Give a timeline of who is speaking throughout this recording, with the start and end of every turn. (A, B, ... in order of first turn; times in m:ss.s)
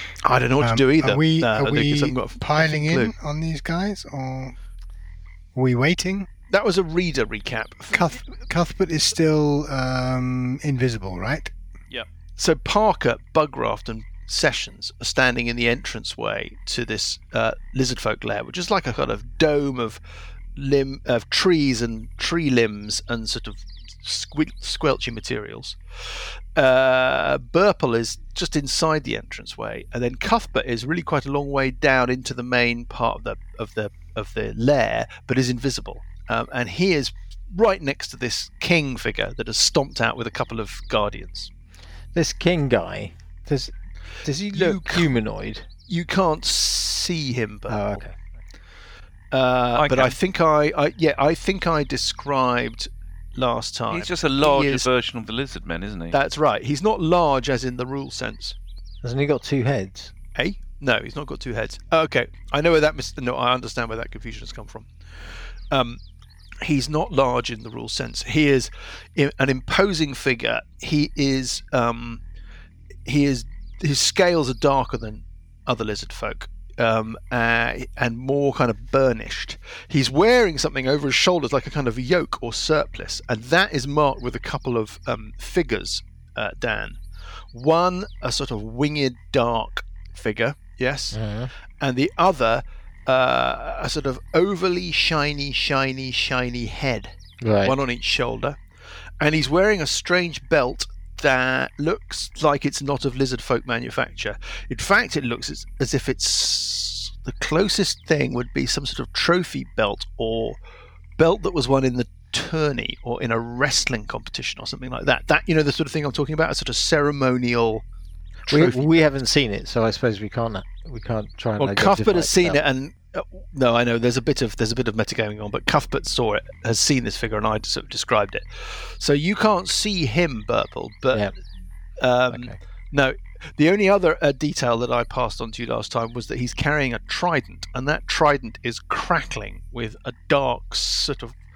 0:00.2-0:03.1 A
0:00.6-0:04.6 B
0:05.6-0:06.3 B
0:06.5-0:08.1 A
0:07.9-0:11.5 B
0:11.9-0:20.0 A
0:20.6-0:41.5 A
0:42.1-0:43.7 C
0:44.2-0:45.7 C
0:44.5-0:45.1 A
0:45.9-0:48.0 A
0:47.7-0:48.2 C
0:49.3-0:54.9 A
0:49.8-0:50.2 D
0:53.9-0:56.2 D
0:56.1-0:58.6 A
0:59.0-1:00.1 C
1:00.4-1:04.9 A
1:05.7-1:06.0 A
1:06.6-1:12.2 A
1:13.1-1:27.0 A
1:27.5-1:31.2 A
1:31.1-1:31.5 C
1:31.8-1:38.6 A
1:37.4-1:37.8 C
1:39.2-1:50.6 A
1:51.2-1:57.8 A
1:58.5-1:59.0 A
1:58.5-2:02.6 C
2:01.6-2:11.3 A
2:12.0-2:21.4 A
2:12.3-2:12.6 C